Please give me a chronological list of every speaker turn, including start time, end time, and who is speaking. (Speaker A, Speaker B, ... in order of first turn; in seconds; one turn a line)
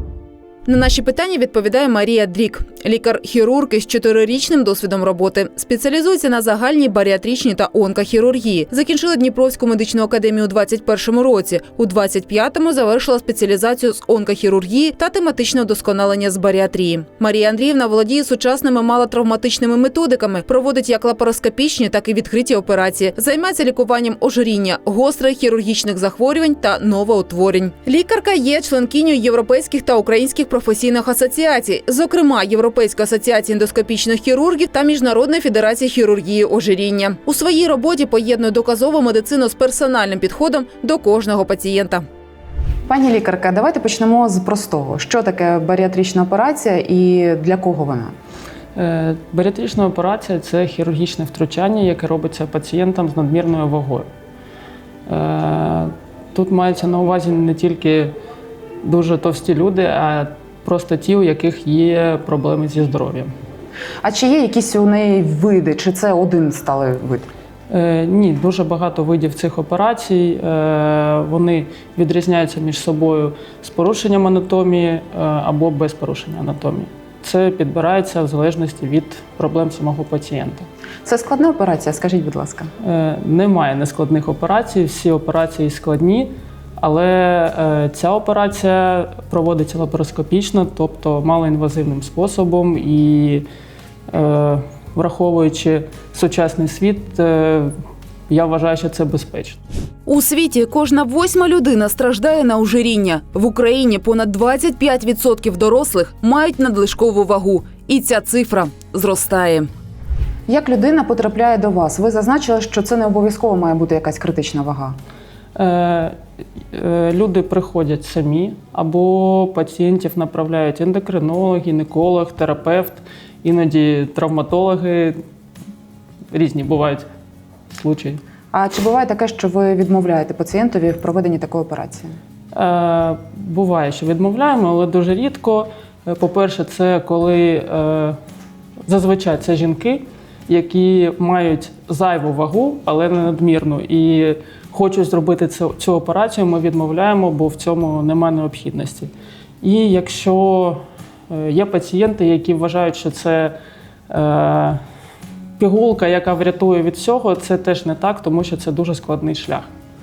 Speaker A: 0.7-42.0
Speaker A: 42.9-48.1
Speaker B: 48.7-54.1
Speaker B: 55.1-58.1
Speaker B: 58.8-63.3
Speaker A: 64.0-67.3
Speaker B: 67.7-80.7
Speaker A: 81.0-82.7
Speaker B: 82.8-93.4
Speaker B: 94.1-97.7
Speaker B: 98.3-99.6
Speaker A: 100.0-109.7
Speaker A: 110.5-115.0
Speaker B: 115.5-116.2
Speaker B: 116.7-125.2
Speaker B: 126.3-127.1
Speaker B: 127.7-128.2
Speaker A: 128.5-132.1
Speaker B: 132.5-138.2
Speaker B: 138.8-149.1
Speaker B: 149.6-153.5
Speaker B: 154.1-154.8
Speaker B: 155.6-159.7